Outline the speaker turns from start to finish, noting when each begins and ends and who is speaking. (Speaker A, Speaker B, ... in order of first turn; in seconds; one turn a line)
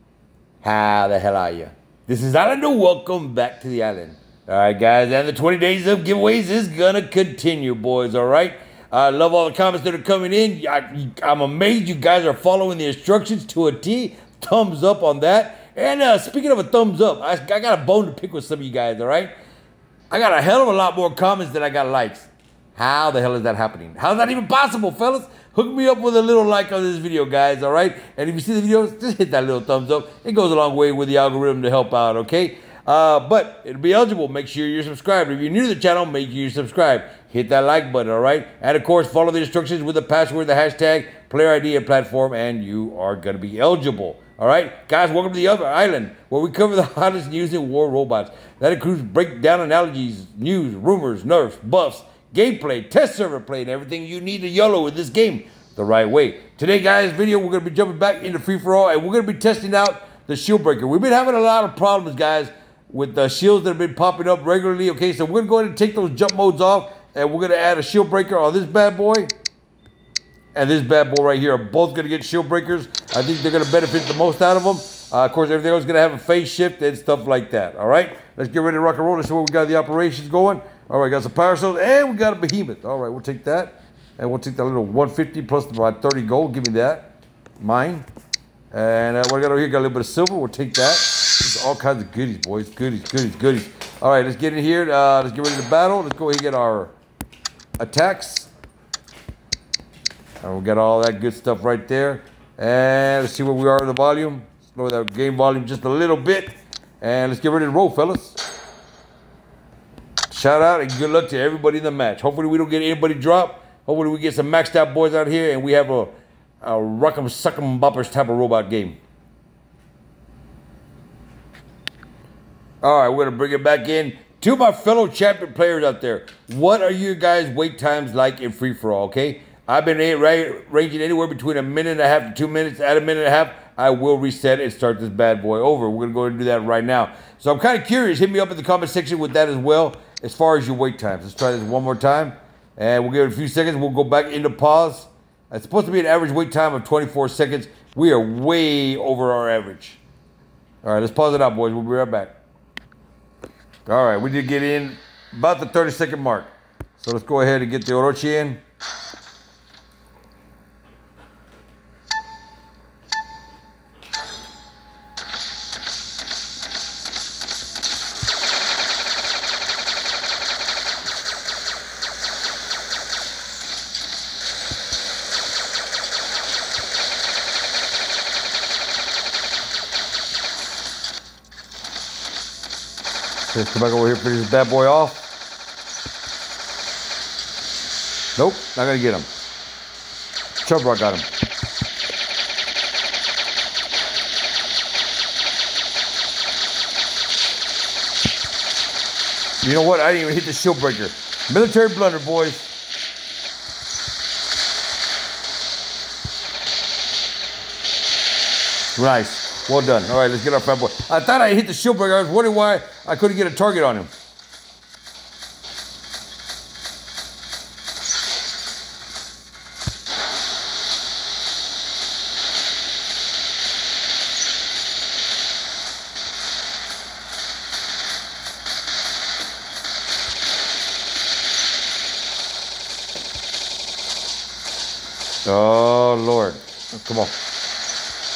Speaker A: 0.6-19.3
Speaker A: 20.1-69.3
Speaker A: 70.5-88.0
Speaker A: 88.7-96.9
Speaker A: 97.8-98.5
Speaker A: 100.4-108.4
Speaker A: 110.3-119.0
Speaker A: 122.8-150.0
Speaker A: 150.8-152.4
Speaker A: 153.8-158.6
Speaker A: 183.5-185.2
Speaker A: 188.3-189.3
Speaker A: 190.6-191.2
Speaker A: 199.6-202.7
Speaker A: 208.9-214.1
Speaker A: 235.4-237.3